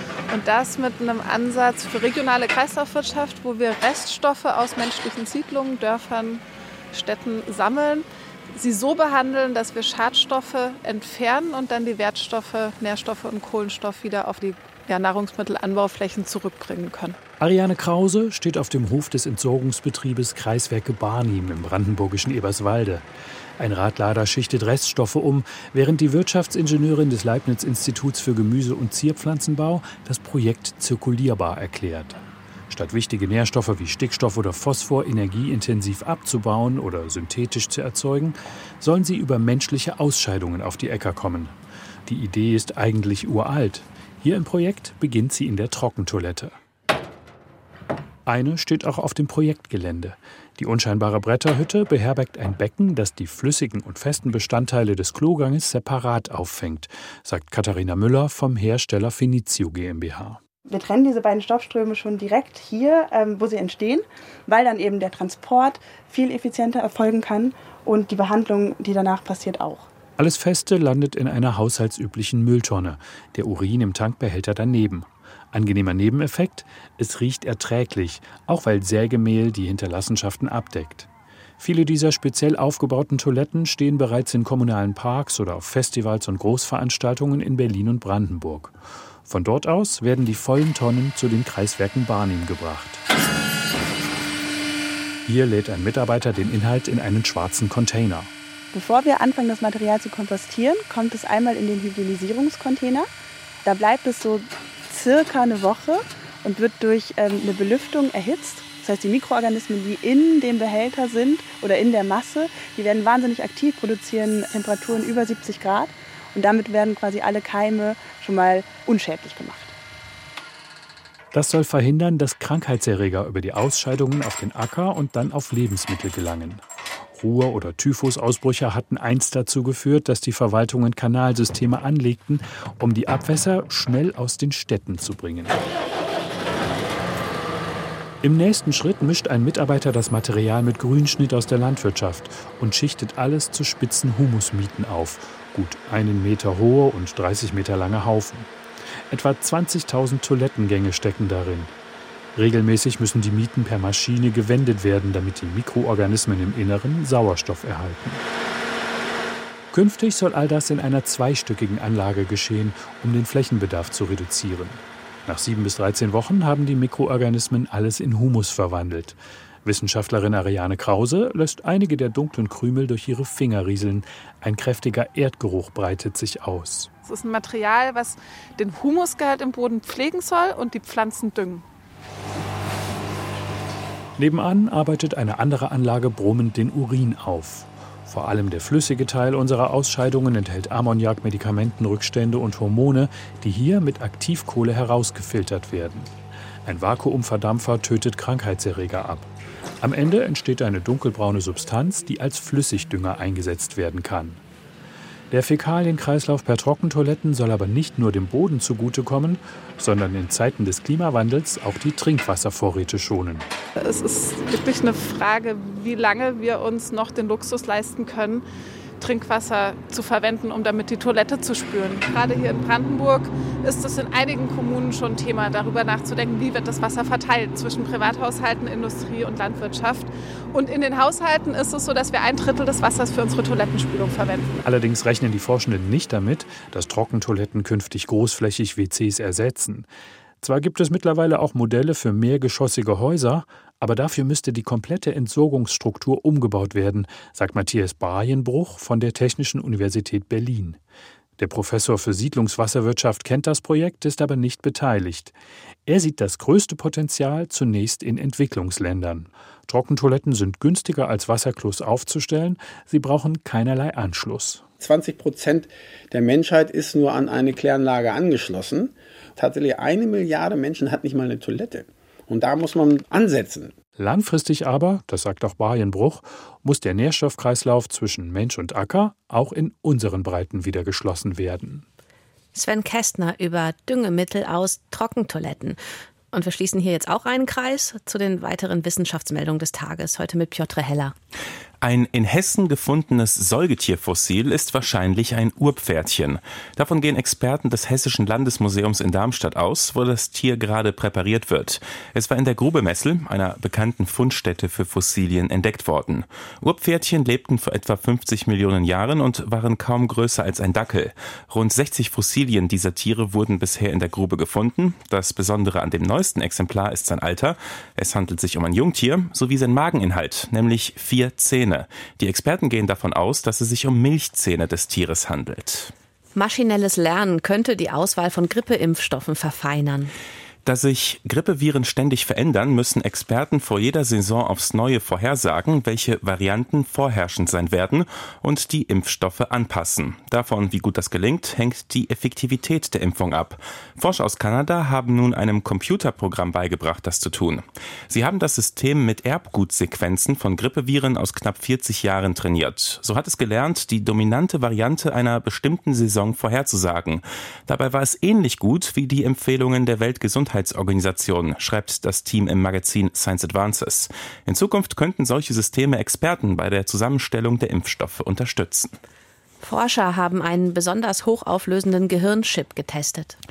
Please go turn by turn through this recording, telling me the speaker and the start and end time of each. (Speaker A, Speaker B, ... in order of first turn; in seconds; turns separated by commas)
Speaker A: 0.3-17.2, Speaker B: 17.4-23.1, Speaker B: 23.6-41.5, Speaker B: 42.1-46.6, Speaker B: 48.3-60.4, Speaker C: 60.7-69.9, Speaker B: 70.2-81.1, Speaker B: 81.6-93.0, Speaker B: 95.3-98.3, Speaker C: 98.7-103.1, Speaker C: 103.7-119.8, Speaker B: 121.3-135.6, Speaker B: 138.2-148.5, Speaker B: 149.1-151.7, Speaker B: 152.4-158.2, Speaker B: 159.7-176.9, Speaker A: 177.1-181.7, Speaker B: 184.2-196.1, Speaker B: 196.7-199.3, Speaker B: 199.8-204.4, Speaker B: 205.3-213.5, Speaker A: 213.8-218.4, Speaker A: 219.0-234.6, Speaker B: 234.6-239.9, Speaker B: 240.4-250.8, Speaker B: 251.4-255.3, Speaker B: 255.9-264.6, Speaker D: 264.8-273.7, Speaker B: 274.0-281.9, Speaker E: 282.5-285.8, Speaker E: 286.3-291.1, Speaker F: 291.8-325.9, Speaker E: 326.4-330.1, Speaker F: 330.6-368.9, Speaker E: 369.6-373.4